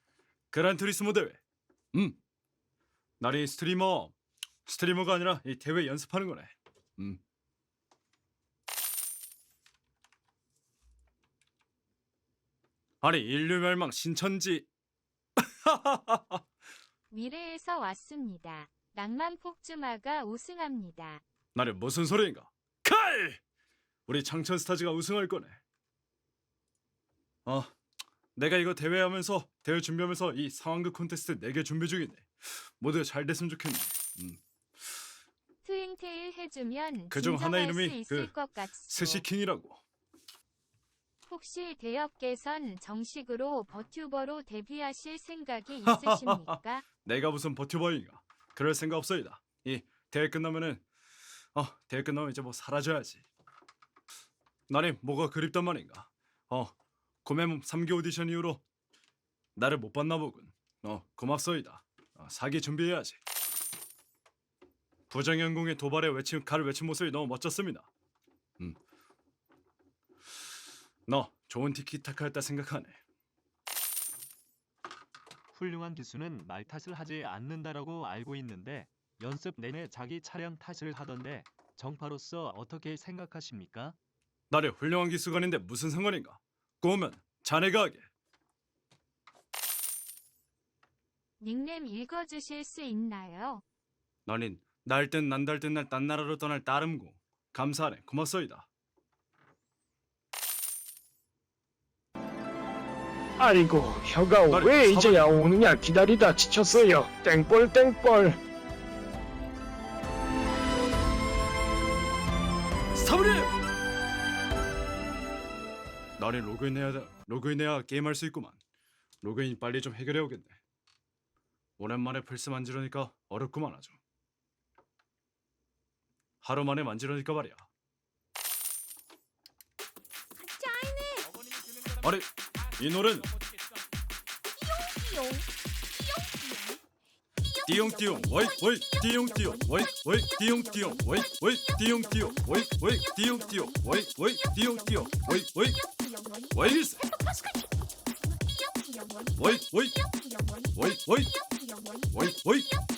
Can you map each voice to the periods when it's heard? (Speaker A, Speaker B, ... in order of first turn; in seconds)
Speaker A: 0.5-1.4, 1.9-2.2, 3.2-4.1, 4.7-7.2, 13.0-14.7, 15.6-16.4, 21.6-23.4, 24.1-25.6, 27.5-27.7, 28.4-32.3, 32.8-34.4, 37.1-38.4, 38.9-39.8, 45.9-50.8, 51.5-53.2, 54.7-56.7, 57.2-58.6, 59.6-63.2, 65.1-67.9, 71.1-73.0, 84.5-88.1, 94.3-98.7, 104.5-105.3, 113.0-113.5, 116.2-118.6, 119.2-120.6, 121.8-124.0, 126.4-127.7, 132.0-133.3, 137.7-145.8, 146.5-147.1, 149.3-150.0, 150.7-151.3, 152.1-152.8
Speaker B: 17.1-21.2, 35.6-39.2, 41.3-46.9, 91.4-93.6, 130.4-131.3, 134.6-135.4, 136.0-136.8
Speaker C: 75.5-84.0
Speaker D: 103.4-108.4